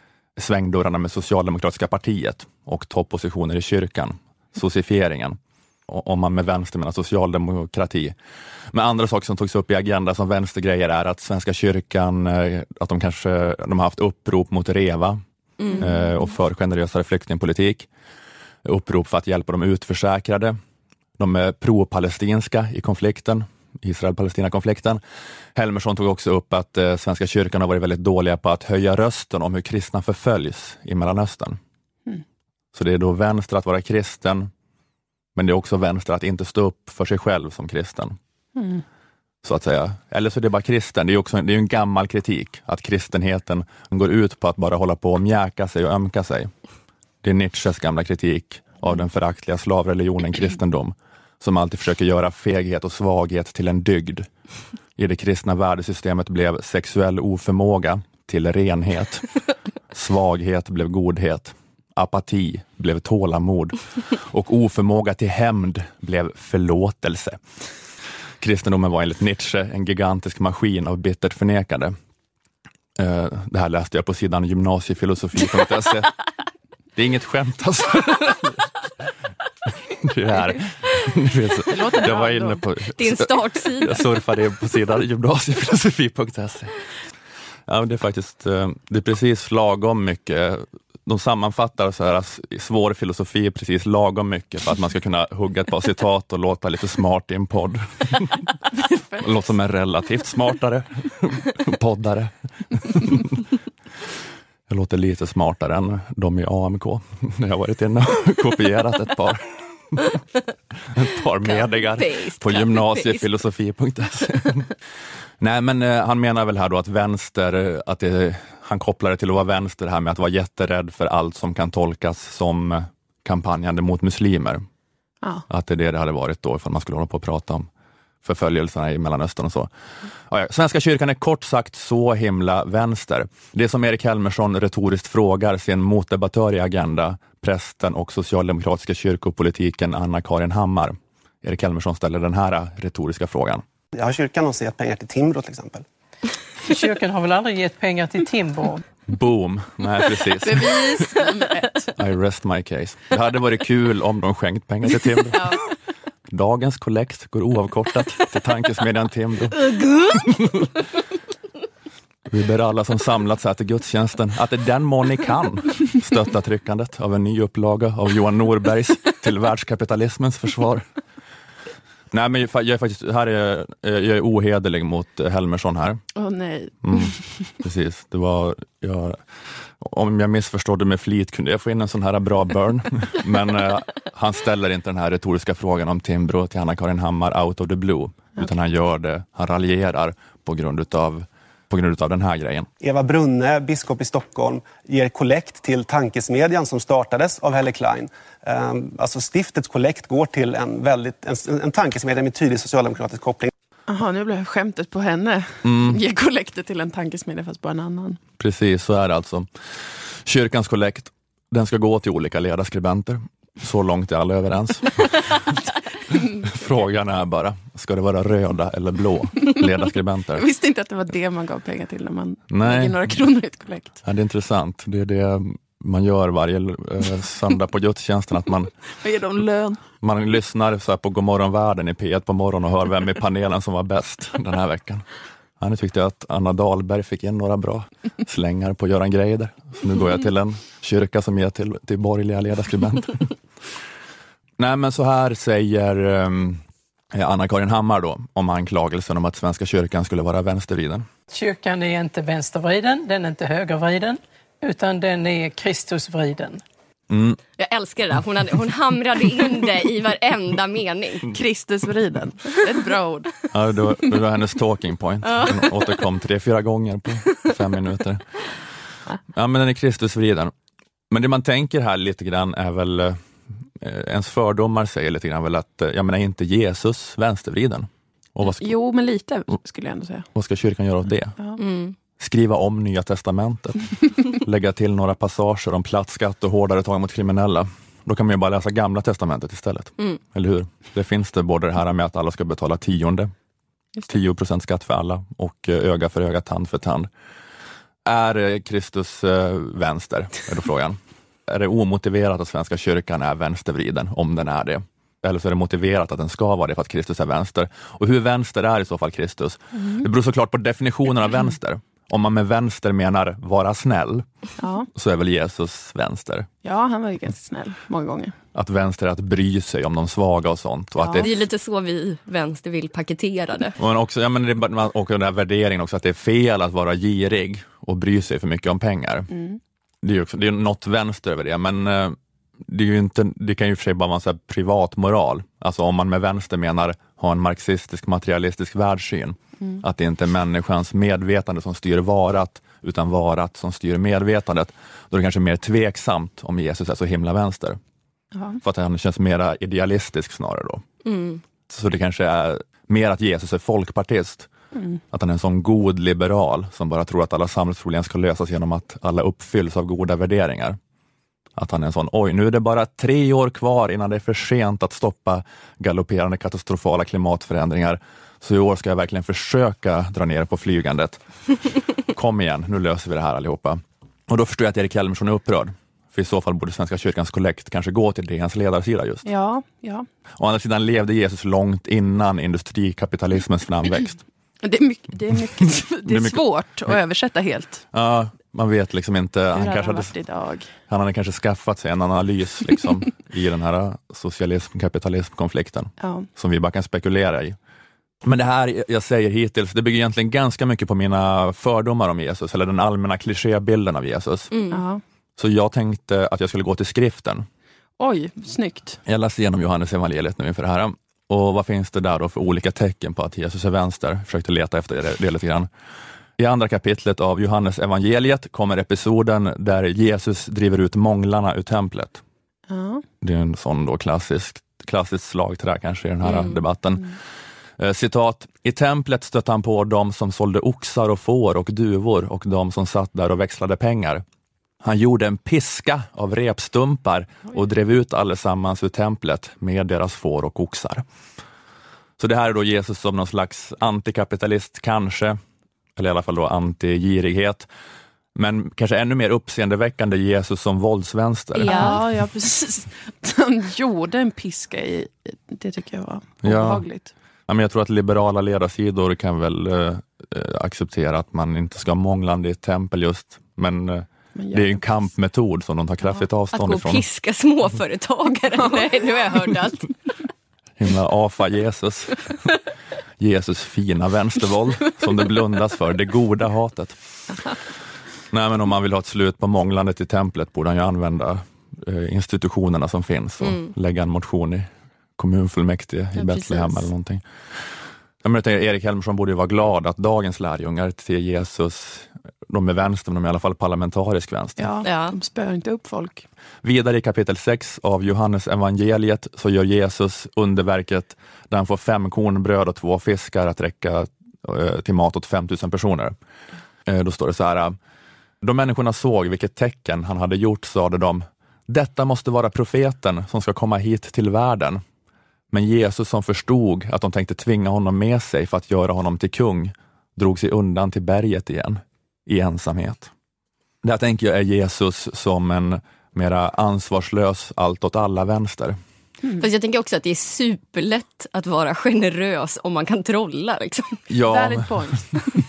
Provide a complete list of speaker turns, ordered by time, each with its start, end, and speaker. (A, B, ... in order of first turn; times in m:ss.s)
0:00.4-0:08.2 A
0:08.7-0:15.2 A
0:15.6-0:15.9 B
0:15.8-0:17.9 A
0:18.6-0:20.6 A
0:21.2-0:25.0 A
0:25.5-0:31.6 A
0:32.7-0:34.5 A
0:35.3-0:38.2 A
0:38.6-0:38.8 C
0:39.4-0:46.5 A
0:47.2-0:54.3 A
0:55.0-0:59.2 A
0:59.9-1:07.4 A
1:08.4-1:11.9 A
1:13.0-1:16.1 A
1:16.9-1:18.6 A
1:19.9-1:26.7 A
1:21.7-1:22.6 C
1:23.0-1:24.0 B
1:27.7-1:38.4 A
1:39.2-1:43.4 A
1:44.7-1:50.2 A
1:50.9-1:54.7 A
1:51.4-1:53.2 B
1:55.4-2:04.6 A
2:05.5-2:07.7 A
2:08.2-2:09.7 A
2:10.3-2:23.6 A
2:23.9-2:25.8 D
2:26.6-2:28.8 E
2:29.1-2:31.0 A
2:30.4-2:31.9 C
2:32.0-2:35.4 A
2:36.3-2:40.7 A
2:39.7-2:40.2 B
2:42.3-2:50.9 A
2:52.1-2:56.0 A
2:56.2-2:57.5 C
2:56.8-2:59.2 A
2:59.8-3:12.7 A
3:12.8-3:23.5 D
3:23.9-3:28.2 C
3:25.6-3:26.0 A
3:28.4-3:35.4 A
3:36.1-3:36.5 C
3:36.4-3:40.4 A
3:40.4-3:44.0 C
3:42.5-3:43.0 A
3:44.0-3:48.7 A
3:49.0-3:49.8 C
3:50.0-3:55.1 A
3:55.6-4:03.3 A
4:04.6-4:11.0 A
4:11.3-4:16.6 E
4:17.1-4:17.4 A
4:17.6-4:21.3 B
4:21.3-4:23.3 C
4:23.5-4:28.2 A
4:25.3-4:25.6 B
4:29.3-4:30.5 A
4:31.1-4:33.2 A
4:33.8-4:38.7 A
4:38.4-4:40.3 C
4:40.3-4:41.4 A
4:41.6-4:42.0 B
4:42.2-4:53.3 A
4:54.1-4:57.1 A
4:58.0-5:14.3 A
5:09.8-5:10.1 C
5:14.6-5:14.9 C
5:14.9-5:16.5 A
5:16.6-5:18.3 C
5:18.5-5:21.3 A
5:21.0-5:21.3 C
5:21.2-5:23.7 B
5:23.8-5:29.3 A
5:29.3-5:29.6 C
5:30.0-5:47.8 A
5:48.3-5:48.6 C
5:48.6-5:50.8 A
5:51.0-5:51.4 B
5:51.7-5:54.5 A
5:54.7-5:55.0 C
5:55.1-6:00.8 A
6:01.6-6:11.2 A
6:12.1-6:19.2 A
6:19.2-6:20.0 C
6:20.4-6:24.2 A
6:24.6-6:27.8 C
6:26.0-6:26.9 A
6:27.9-6:30.1 A
6:29.5-6:30.7 C
6:30.9-6:37.6 A
6:36.0-6:36.3 C
6:38.2-6:44.5 A
6:44.5-6:44.8 B
6:44.7-6:45.0 C
6:45.4-6:47.5 A
6:48.0-6:49.0 C
6:49.0-6:55.7 A
6:56.4-7:02.2 A
7:02.7-7:03.0 C
7:03.2-7:07.2 A
7:06.2-7:06.6 B
7:07.8-7:14.2 A
7:14.8-7:21.0 A
7:22.2-7:25.4 A
7:26.0-7:27.7 A
7:28.3-7:32.0 A
7:31.6-7:32.0 B
7:31.6-7:37.1 C
7:36.4-7:36.8 A
7:37.5-7:47.0 A
7:44.3-7:44.9 C
7:46.5-7:49.9 B
7:50.8-7:52.2 A
7:53.2-7:57.0 A
7:58.3-8:07.6 A
8:03.4-8:03.7 B
8:06.2-8:06.9 B
8:08.2-8:14.6 A
8:14.6-8:16.2 C
8:14.8-8:15.2 B
8:16.6-8:26.1 A
8:26.8-8:27.8 A
8:28.4-8:34.8 A
8:35.5-8:43.1 A
8:43.8-8:48.8 A
8:49.4-8:54.0 B
8:54.1-8:54.9 A
8:54.3-8:55.3 C